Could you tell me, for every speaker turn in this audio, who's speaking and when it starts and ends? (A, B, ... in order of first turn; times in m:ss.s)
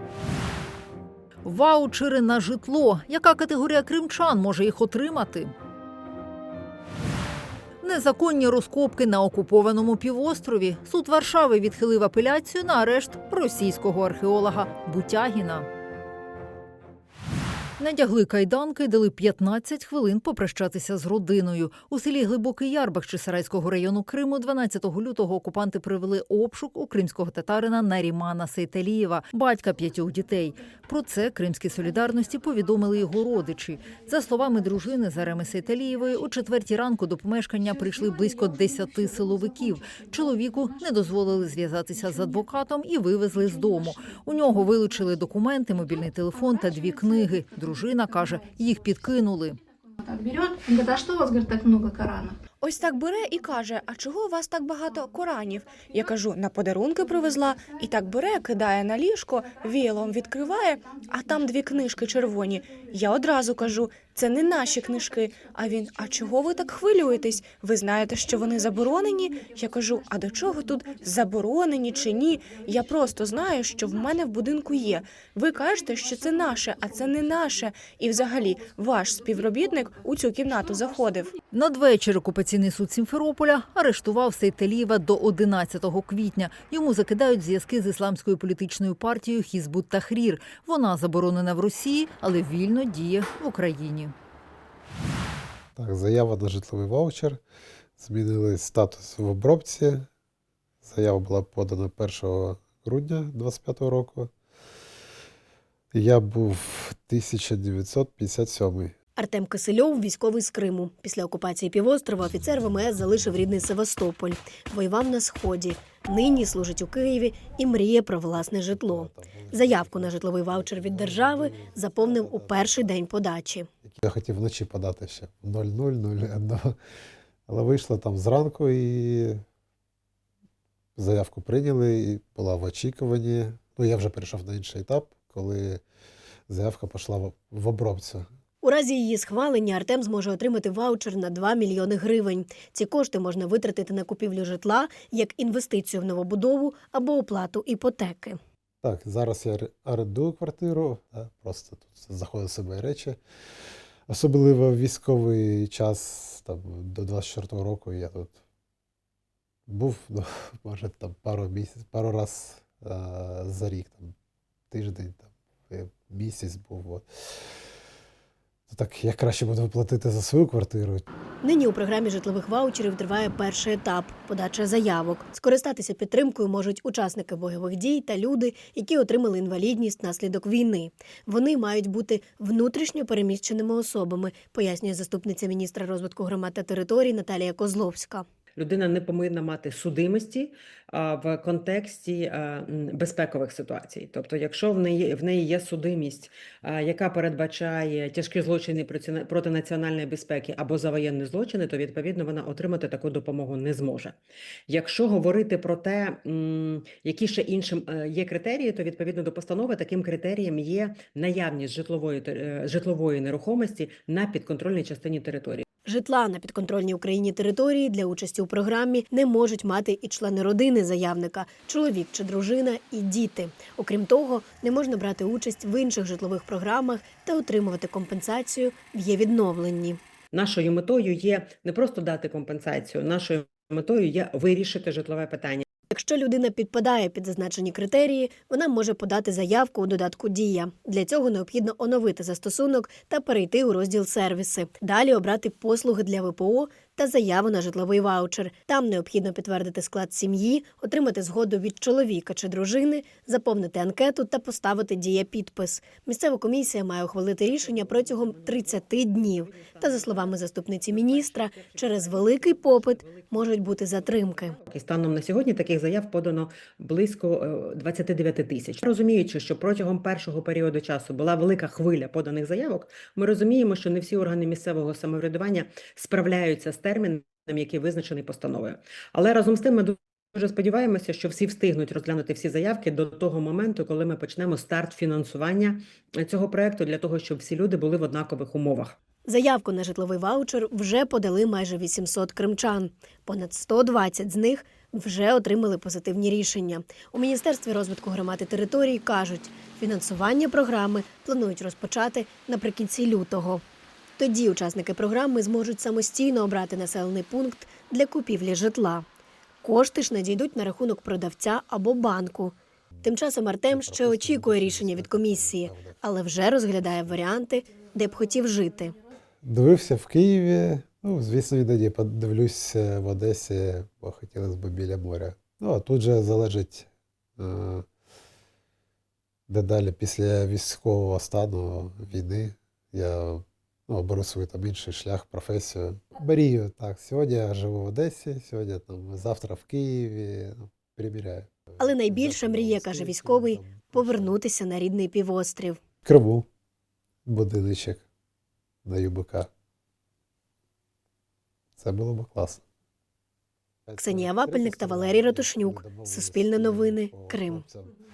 0:01.4-0:05.5 A
0:07.8-0:15.7 A
0:17.8-0:49.6 A
0:50.0-0:52.4 B
0:52.6-1:21.3 C
1:21.5-1:34.1 A
1:35.8-1:37.4 D
1:38.0-1:40.0 D
1:40.8-1:44.3 D
1:45.9-1:48.9 D
1:49.2-2:03.7 E
1:58.7-2:02.9 D
2:03.8-2:06.8 D
2:07.5-2:09.4 D
2:11.0-2:15.8 D
2:16.5-2:18.3 D
2:18.6-2:28.4 E
2:28.8-2:33.2 D
2:34.1-2:38.4 D
2:39.7-2:44.1 D
2:44.7-2:47.1 D
2:48.7-2:51.0 D
2:51.4-3:08.2 E
3:08.6-3:24.2 F
3:24.7-3:35.6 F
3:35.8-3:50.0 E
3:50.3-3:55.6 F
3:55.9-4:24.6 E
4:17.4-4:49.0 F
4:49.2-5:03.6 E
5:04.2-5:09.0 E
5:09.6-5:18.9 E
5:13.7-5:16.0 D
5:19.4-5:27.8 D
5:29.5-5:44.4 D
5:41.8-5:45.8 E
5:46.0-5:46.4 D
5:47.2-5:48.0 D
5:48.8-5:49.5 D
5:51.8-5:52.6 D
5:53.9-5:57.9 D
5:54.0-5:57.6 E